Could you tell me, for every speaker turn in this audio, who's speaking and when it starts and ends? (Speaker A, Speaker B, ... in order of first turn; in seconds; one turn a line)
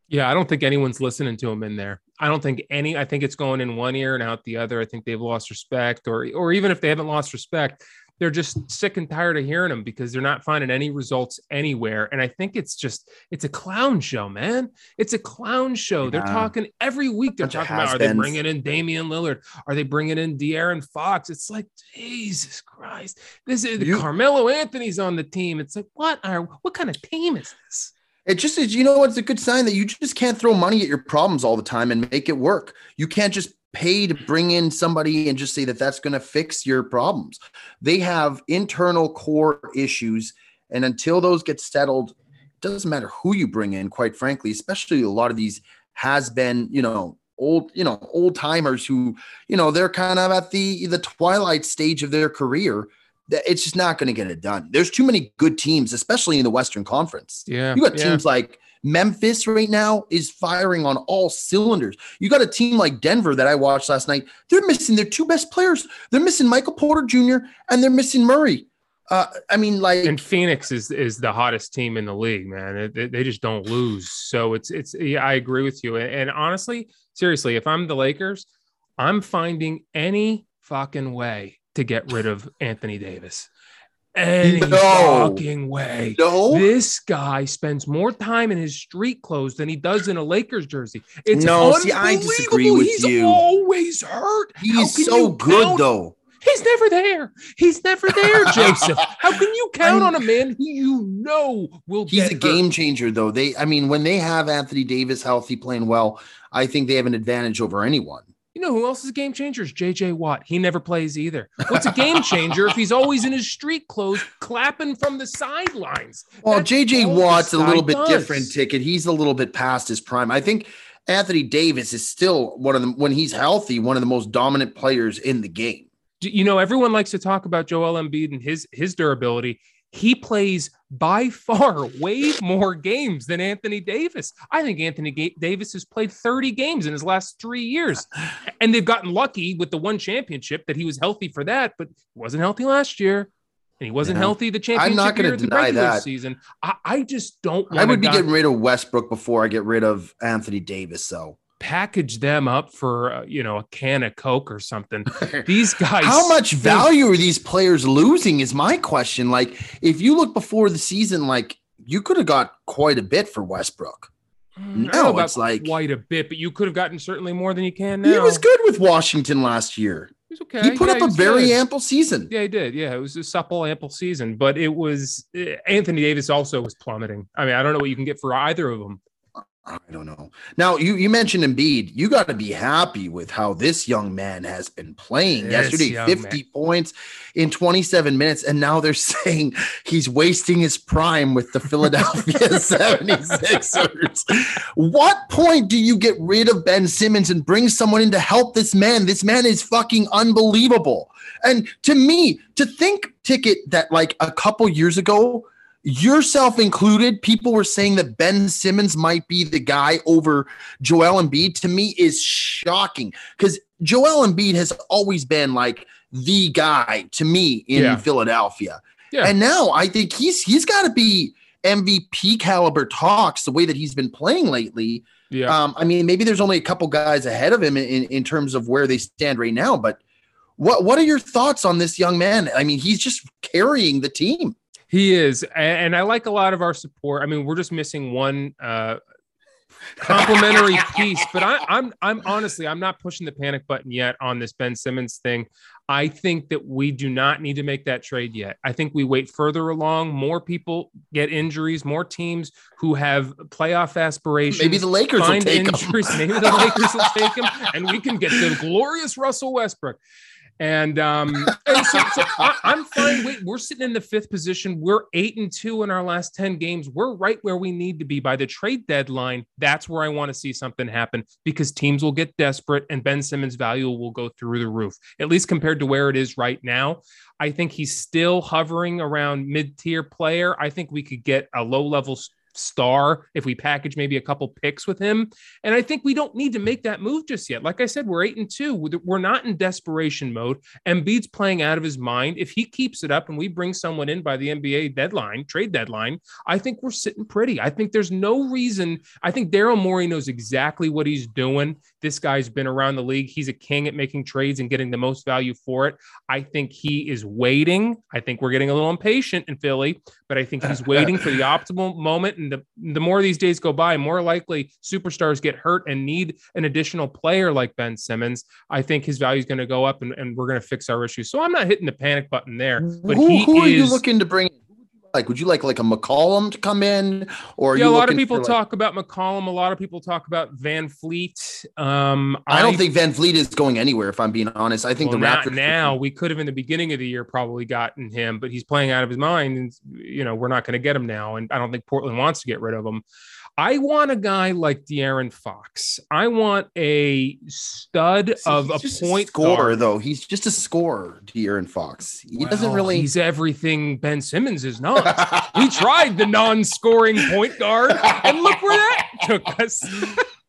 Speaker A: 0.1-27.9
Speaker B: 16.0-16.5
Speaker B: 17.4-18.4
Speaker B: 23.8-24.1
Speaker B: 28.3-70.2
Speaker A: 57.5-58.2
Speaker A: 70.0-78.5
Speaker A: 79.0-83.5
Speaker A: 84.2-95.9
Speaker B: 84.4-85.4
Speaker B: 86.2-86.7
Speaker B: 91.3-93.4
Speaker B: 94.6-96.2
Speaker A: 96.4-102.6
Speaker B: 98.1-98.9
Speaker B: 99.8-100.2
Speaker B: 102.1-108.3
Speaker A: 108.5-118.5
Speaker B: 111.7-112.5
Speaker B: 116.4-125.9
Speaker A: 126.2-138.1
Speaker A: 138.6-148.3
Speaker B: 144.0-146.1
Speaker B: 147.7-151.4
Speaker A: 151.6-156.9
Speaker B: 155.2-155.5
Speaker B: 156.0-164.1
Speaker A: 164.6-168.4
Speaker B: 164.8-165.7
Speaker B: 168.0-172.3
Speaker A: 170.3-171.6
Speaker A: 172.3-179.0
Speaker B: 179.6-230.0
Speaker A: 185.4-186.4
Speaker A: 217.8-218.0
Speaker A: 225.3-225.6
Speaker B: 230.6-234.6
Speaker A: 234.9-239.0
Speaker A: 240.0-260.0
Speaker B: 240.0-241.2
Speaker B: 254.5-257.3
Speaker A: 260.6-324.0
Speaker B: 261.4-263.2
Speaker B: 310.6-311.3
Speaker B: 322.8-328.6
Speaker A: 327.8-332.8
Speaker B: 332.5-335.9
Speaker A: 335.0-343.0
Speaker A: 343.6-349.8
Speaker B: 348.4-353.1
Speaker A: 352.4-360.3
Speaker B: 355.0-355.7
Speaker B: 358.0-359.2